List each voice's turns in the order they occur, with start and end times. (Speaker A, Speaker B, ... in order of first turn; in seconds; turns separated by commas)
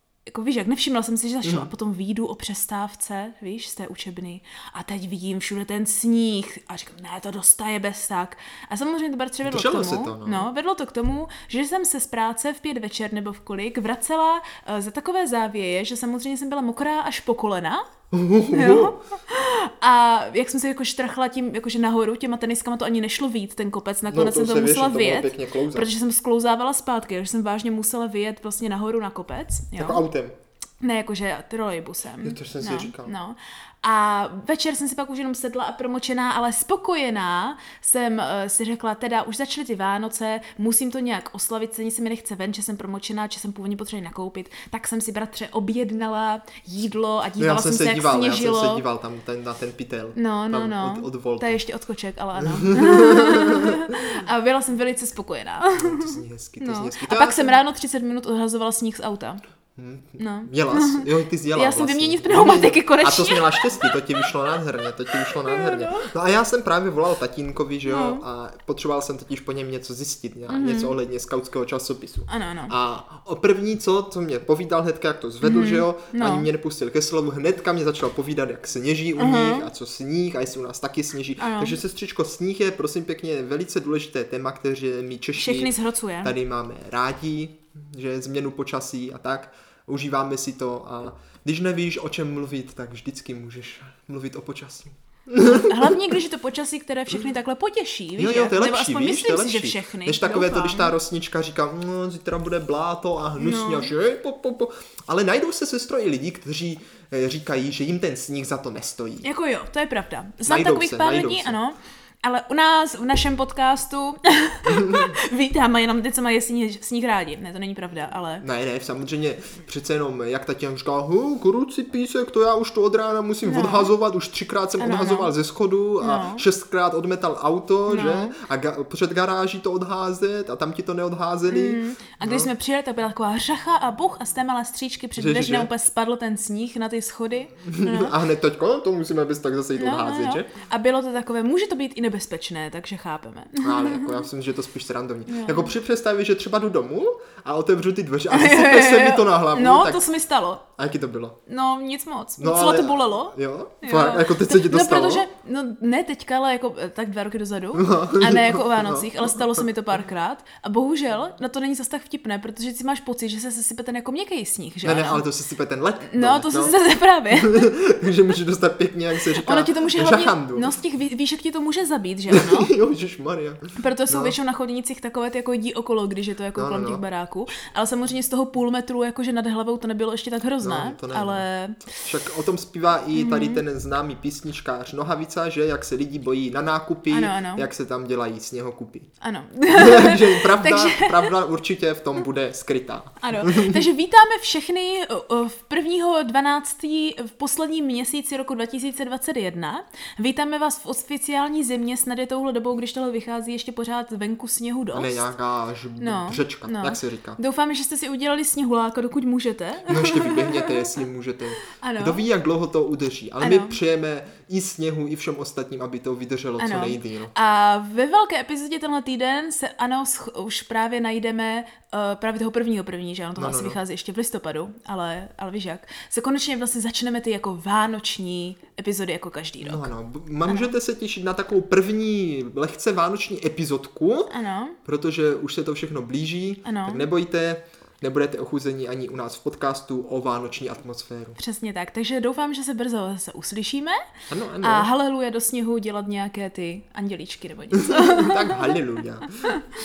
Speaker A: 0.3-17.8, Speaker B: 1.4-1.7, Speaker B: 9.4-10.5, Speaker B: 18.1-19.0, Speaker A: 18.5-30.0, Speaker B: 24.1-25.9, Speaker B: 29.8-30.4, Speaker A: 30.8-48.8, Speaker B: 32.2-33.1, Speaker B: 47.4-51.6, Speaker A: 50.1-59.4, Speaker B: 52.4-53.9, Speaker B: 55.8-57.6, Speaker B: 59.8-96.1, Speaker A: 60.2-64.2, Speaker A: 65.1-66.1, Speaker A: 67.9-68.2, Speaker A: 70.5-71.0, Speaker A: 72.3-72.7, Speaker A: 75.4-76.5, Speaker A: 79.2-79.7, Speaker A: 81.4-81.8, Speaker A: 85.3-86.3, Speaker A: 95.4-100.9, Speaker B: 98.2-109.3, Speaker A: 103.4-103.9, Speaker A: 109.2-118.4, Speaker B: 110.4-111.6, Speaker B: 114.7-115.2, Speaker B: 118.4-132.5, Speaker A: 123.4-123.9, Speaker A: 124.8-125.3, Speaker A: 126.0-126.5, Speaker A: 127.9-128.3, Speaker A: 131.5-138.1, Speaker B: 135.2-135.7, Speaker B: 137.6-140.5, Speaker A: 139.8-144.2, Speaker B: 143.6-150.0, Speaker A: 145.3-145.7, Speaker A: 148.3-150.7, Speaker B: 150.8-151.3, Speaker A: 151.5-165.2, Speaker B: 152.4-155.3, Speaker B: 157.7-159.7, Speaker B: 164.8-166.8, Speaker A: 166.1-167.7, Speaker B: 167.3-170.7, Speaker A: 169.4-172.7, Speaker B: 172.3-174.4, Speaker A: 173.8-181.8, Speaker B: 176.5-177.0, Speaker B: 180.6-181.4, Speaker B: 182.0-189.1, Speaker A: 183.1-183.6, Speaker A: 187.1-187.7, Speaker A: 189.2-191.3, Speaker B: 189.7-193.9, Speaker A: 193.2-205.3, Speaker B: 204.9-207.4, Speaker A: 206.0-210.9, Speaker B: 209.9-217.3, Speaker A: 211.8-212.2, Speaker A: 213.4-213.8, Speaker A: 216.6-229.9, Speaker B: 223.4-223.8, Speaker B: 229.6-234.3, Speaker A: 230.4-230.7, Speaker A: 234.3-234.8, Speaker B: 234.8-241.4, Speaker A: 236.6-237.1, Speaker A: 241.3-244.0, Speaker B: 244.3-244.9, Speaker A: 244.6-248.8, Speaker B: 247.7-249.3, Speaker A: 249.5-249.8